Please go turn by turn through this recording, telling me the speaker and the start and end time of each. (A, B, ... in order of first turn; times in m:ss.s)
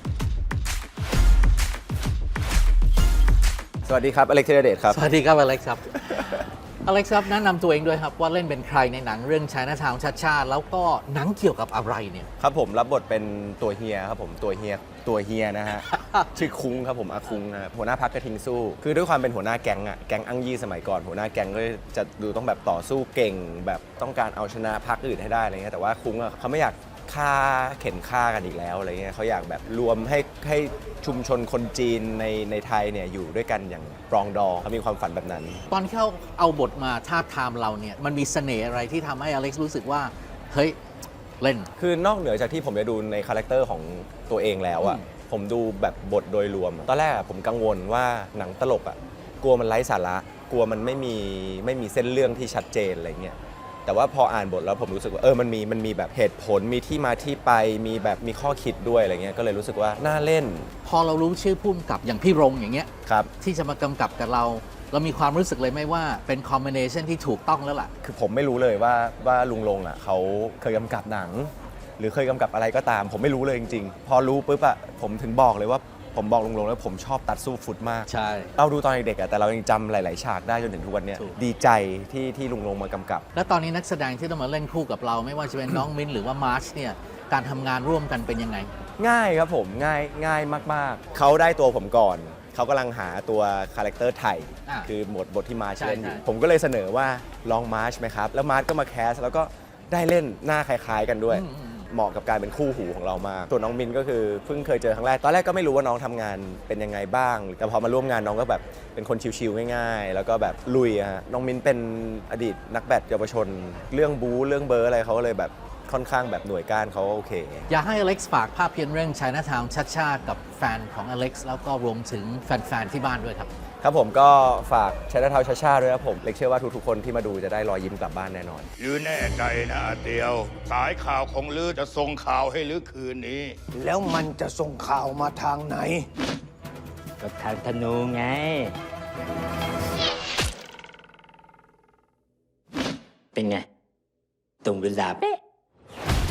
0:03.9-0:05.0 A
0:04.9-0:12.3 B
0:12.4-0:35.7 A
0:35.7-0:40.8 B
0:41.4-0:41.7 B
0:41.8-1:00.7 A
1:00.8-1:02.9 B
1:03.1-1:03.3 A
1:03.4-1:07.9 B
1:08.0-1:23.2 A
1:18.1-1:18.5 B
1:23.4-1:28.7 B
1:29.0-1:57.7 A
1:35.8-1:36.2 B
1:41.3-1:41.9 B
1:57.7-2:03.5 B
2:03.8-2:08.7 A
2:08.8-2:13.6 C
2:13.8-2:16.1 D
2:17.2-2:18.8 E
2:23.4-2:23.7 E
2:24.6-2:25.4 E